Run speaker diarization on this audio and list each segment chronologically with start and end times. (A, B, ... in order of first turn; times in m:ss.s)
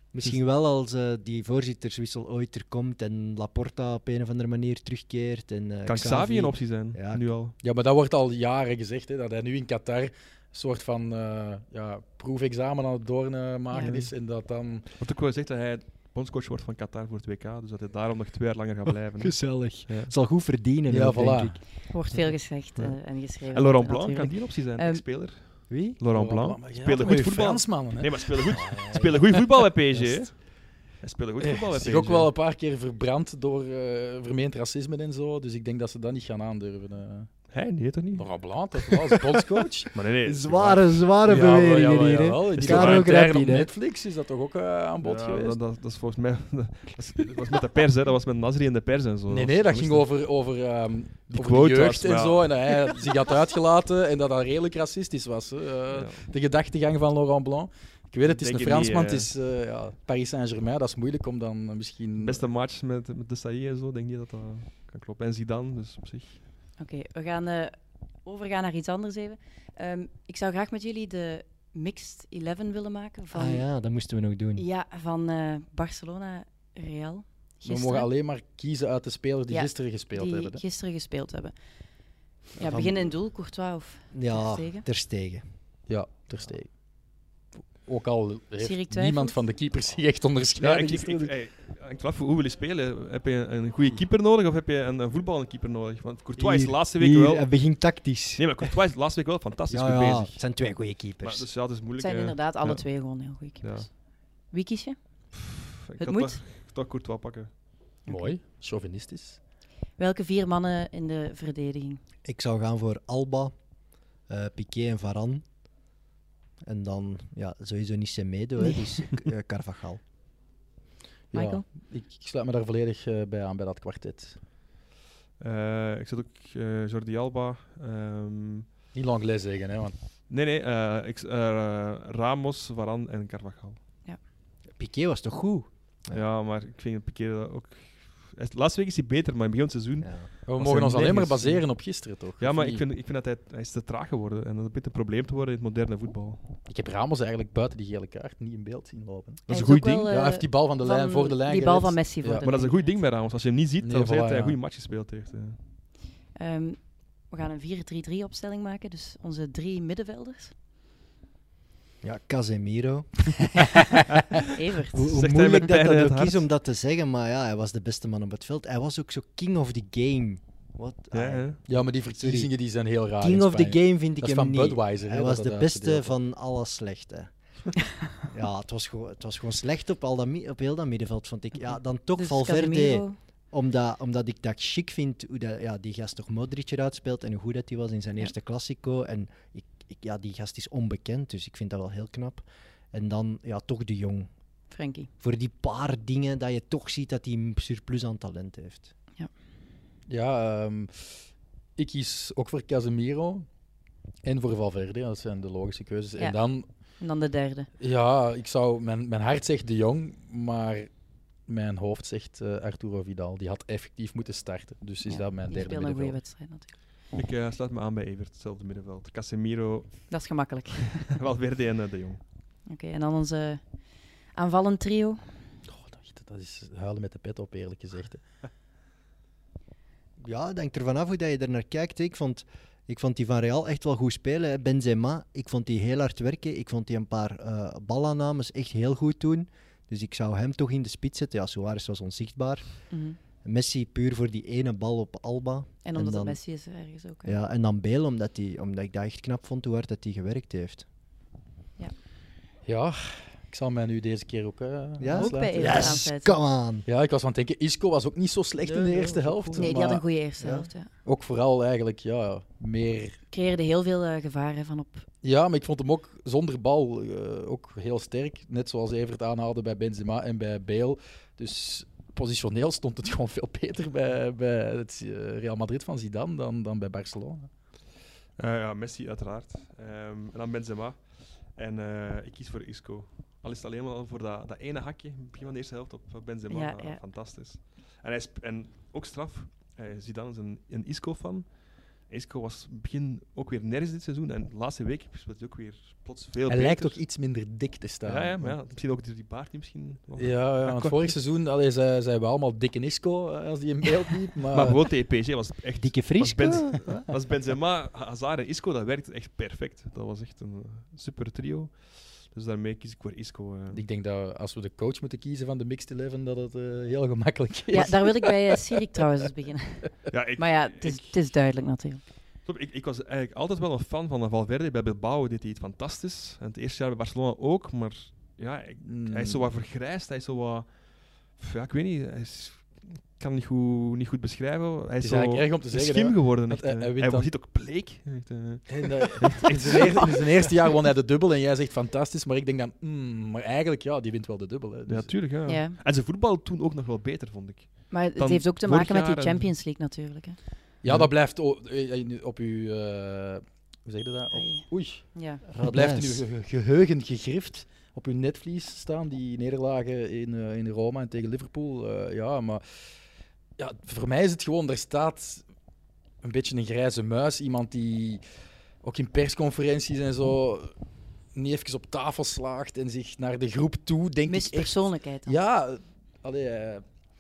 0:00.1-0:07.3 A
0:05.9-0:07.6 B
0:07.6-0:14.9 C
0:13.7-0:14.0 D
0:13.8-0:14.1 B
0:15.0-0:20.1 B
0:19.2-0:21.6 A
0:20.9-0:21.6 C
0:21.9-0:25.0 D
0:22.8-0:32.3 B
0:25.7-0:26.0 A
0:26.1-0:28.8 C
0:28.5-0:29.2 A
0:30.0-0:30.2 A
0:30.0-0:30.2 C
0:31.4-0:37.3 C
0:37.5-0:39.2 B
0:38.2-0:39.9 C
0:39.9-0:40.9 B
0:40.3-0:43.7 A
0:41.3-0:45.6 C
0:42.6-0:43.2 B
0:45.0-0:50.1 B
0:49.3-1:02.4 C
0:51.3-0:53.0 B
0:55.9-0:56.2 B
0:58.2-0:59.3 B
1:02.2-1:06.4 B
1:06.8-1:13.6 D
1:13.3-1:14.6 A
1:14.6-1:18.1 D
1:17.6-1:20.6 C
1:19.5-1:21.6 D
1:22.6-1:24.8 D
1:22.6-1:23.1 A
1:24.1-1:25.4 A
1:25.9-1:26.7 C
1:27.8-1:31.3 C
1:28.6-1:29.4 D
1:30.6-1:37.5 B
1:36.4-1:38.8 A
1:38.4-1:40.4 B
1:39.7-1:41.5 A
1:41.2-1:43.9 B
1:42.0-1:45.0 D
1:45.3-1:47.5 B
1:46.0-1:46.4 D
1:48.1-1:48.4 D
1:48.1-1:49.4 C
1:50.0-1:52.0 D
1:52.3-1:53.5 A
1:54.3-1:55.4 A
1:56.7-2:00.0 A
2:01.3-2:04.4 C
2:01.3-2:01.6 D
2:05.4-2:08.7 B
2:08.9-2:10.0 C
2:10.3-2:13.8 B
2:14.8-2:16.2 A
2:16.1-2:21.7 B
2:20.0-2:20.3 A
2:20.5-2:22.8 C
2:22.4-2:26.5 B
2:26.7-2:29.4 C
2:29.5-2:30.1 B
2:29.5-2:32.9 D
2:30.0-2:32.5 C
2:32.4-2:35.6 B
2:33.8-2:34.6 C
2:36.4-2:40.5 D
2:42.0-2:43.3 A
2:44.6-2:45.1 D
2:44.9-2:52.5 A
2:45.1-2:46.4 B
2:51.1-2:51.6 B
2:51.7-2:56.2 C
2:53.2-2:57.3 A
2:58.3-3:14.3 A
3:02.2-3:03.2 D
3:14.7-3:15.1 D
3:15.2-3:18.9 A
3:20.1-3:21.2 C
3:21.8-3:23.5 C
3:24.2-3:26.7 C
3:26.2-3:27.7 D
3:27.8-3:30.9 C
3:31.5-3:36.2 C
3:35.0-3:36.7 D
3:37.1-3:42.2 B
3:40.1-3:41.2 D
3:42.7-3:43.7 D
3:44.3-3:45.3 D
3:45.7-3:48.2 C
3:50.2-4:02.9 A
4:02.9-4:03.2 D
4:03.4-4:06.4 A
4:05.8-4:07.4 D
4:07.2-4:10.9 A
4:12.6-4:16.0 C
4:15.0-4:16.9 A
4:15.1-4:16.4 D
4:16.9-4:20.1 C
4:18.6-4:20.7 A
4:19.6-4:20.9 D
4:21.0-4:23.2 C
4:23.3-4:25.1 D
4:25.2-4:37.5 C
4:38.4-4:57.0 B
4:46.5-4:47.0 D
4:56.5-4:58.6 C
4:58.0-5:01.1 B
5:00.2-5:04.8 C
5:04.5-5:13.8 B
5:05.8-5:07.0 A
5:13.7-5:19.0 C
5:17.7-5:22.0 D
5:20.1-5:21.2 B
5:22.4-5:30.8 B
5:28.8-5:29.5 C
5:31.3-5:40.2 B
5:35.0-5:37.3 C
5:38.7-5:45.1 C
5:39.8-5:40.1 D
5:44.9-5:49.5 B
5:45.5-5:45.8 D
5:47.9-5:50.4 D
5:50.8-6:02.9 C
5:54.3-5:55.4 D
5:55.5-5:56.2 A
6:03.6-6:05.5 C
6:06.2-6:08.2 C
6:08.8-6:10.7 C
6:11.3-6:16.9 C
6:14.3-6:15.4 D